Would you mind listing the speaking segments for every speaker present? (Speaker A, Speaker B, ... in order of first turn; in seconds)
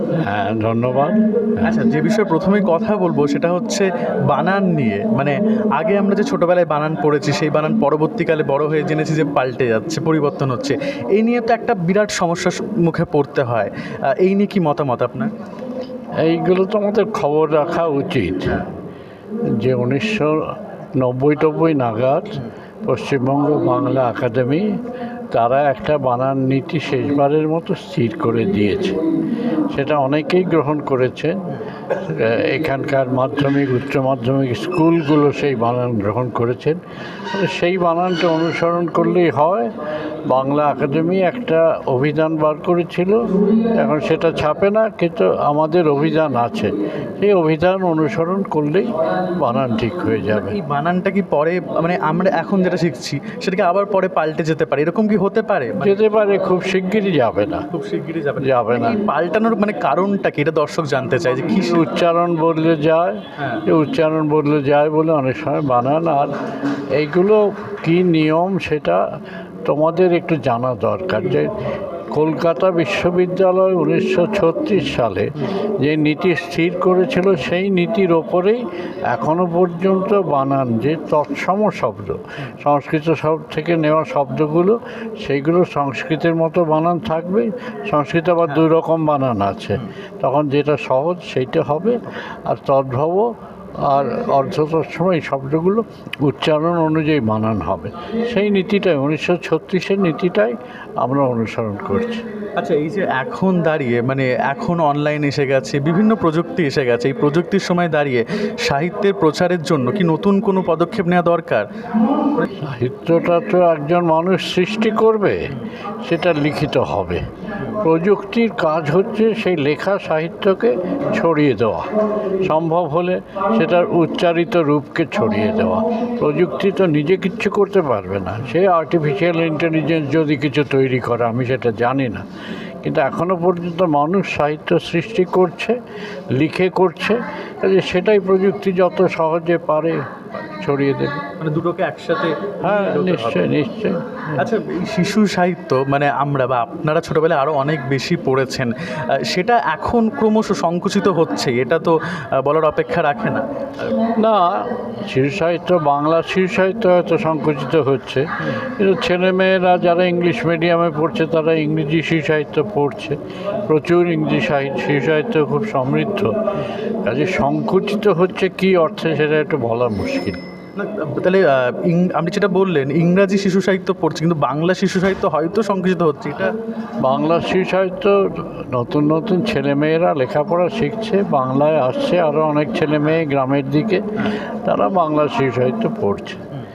Speaker A: 0.2-1.8, 16.2-18.6, 19.6-20.4, 21.0-24.7, 25.3-29.0, 29.7-36.8, 37.3-39.7, 40.3-50.6, 55.8-57.7, 58.4-59.0, 61.5-66.3, 67.0-69.0, 69.6-71.5, 72.1-93.3, 93.8-102.2, 112.6-115.5, 116.0-132.2, 132.8-135.8, 136.3-140.0, 140.6-141.2, 142.6-144.0, 154.0-166.3, 167.0-170.4, 177.0-186.4
Speaker B: 1.6-15.3, 50.3-56.0, 57.7-61.9, 63.4-63.6, 102.5-111.7, 141.4-143.5, 144.4-153.4, 170.8-176.5